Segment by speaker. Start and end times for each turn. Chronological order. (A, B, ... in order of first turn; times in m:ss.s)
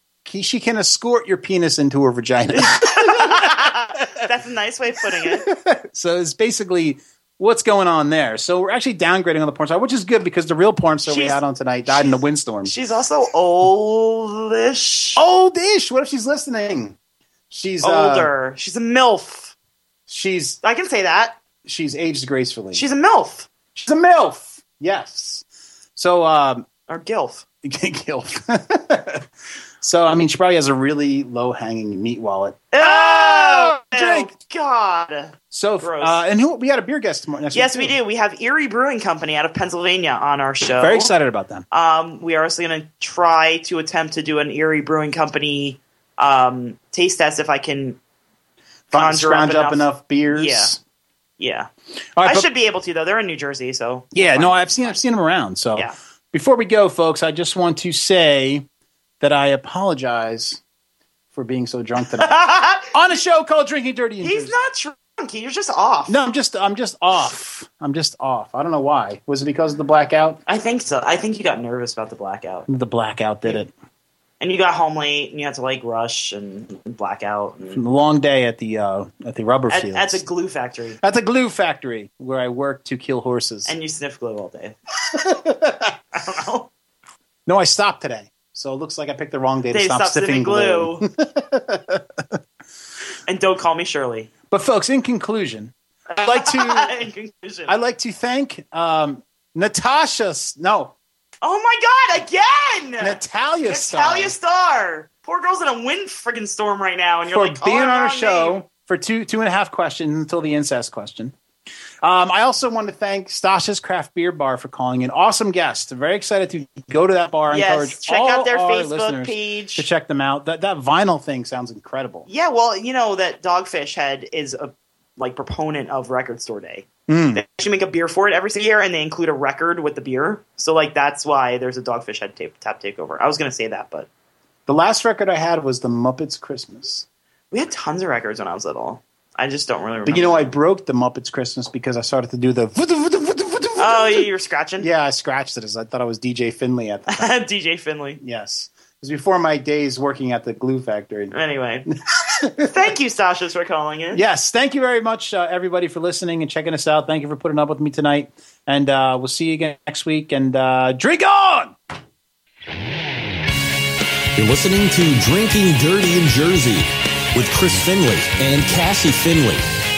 0:00.2-0:04.0 A
0:02.6-0:05.5 B
0:05.2-0:12.7 A
0:11.0-0:15.2 B
0:15.2-0:17.0 A
0:17.5-0:18.3 A
0:17.8-0:19.5 B
0:20.1-0:20.6 A
0:20.6-0:21.4 B
0:21.6-0:22.8 A
0:22.7-0:23.5 B
0:23.7-0:25.4 A
0:26.0-0:26.7 A
0:26.9-0:27.4 B
0:27.6-0:29.3 A
0:29.8-0:34.3 A
0:32.7-0:36.2 B
0:35.5-0:38.0 A
0:37.5-0:41.1 B
0:40.8-0:41.6 A
0:41.7-0:48.0 B
0:48.9-0:50.8 A
0:48.9-0:50.7 B
0:51.4-0:51.7 B
0:52.2-0:52.5 A
0:52.2-0:55.0 B
0:54.1-0:58.6 A
0:59.2-1:00.6 A
1:01.3-1:04.6 A
1:02.2-1:02.9 B
1:04.2-1:06.2 B
1:06.1-1:10.4 A
1:10.5-1:12.7 B
1:12.7-1:13.7 A
1:14.4-1:17.8 B
1:17.7-1:20.2 A
1:19.7-1:21.0 B
1:21.0-1:23.7 A
1:23.6-1:24.8 B
1:25.1-1:25.9 A
1:26.1-1:26.7 B
1:27.4-1:32.4 A
1:29.7-1:31.0 B
1:33.3-1:34.3 B
1:34.5-1:36.9 A
1:36.1-1:37.7 B
1:37.7-1:40.9 A
1:41.4-1:48.6 B
1:43.0-1:44.3 A
1:47.3-1:51.3 A
1:52.0-2:02.3 A
1:57.5-1:59.9 B
2:02.3-2:14.1 B
2:07.1-2:07.4 A
2:14.7-2:17.0 A
2:17.5-2:20.5 B
2:20.0-2:24.3 A
2:23.8-2:24.9 B
2:24.8-2:27.4 A
2:27.1-2:28.2 B
2:28.2-2:31.3 A
2:31.3-2:31.9 B
2:31.9-2:32.8 A
2:32.6-2:34.2 B
2:34.1-2:41.7 A
2:44.3-2:49.6 C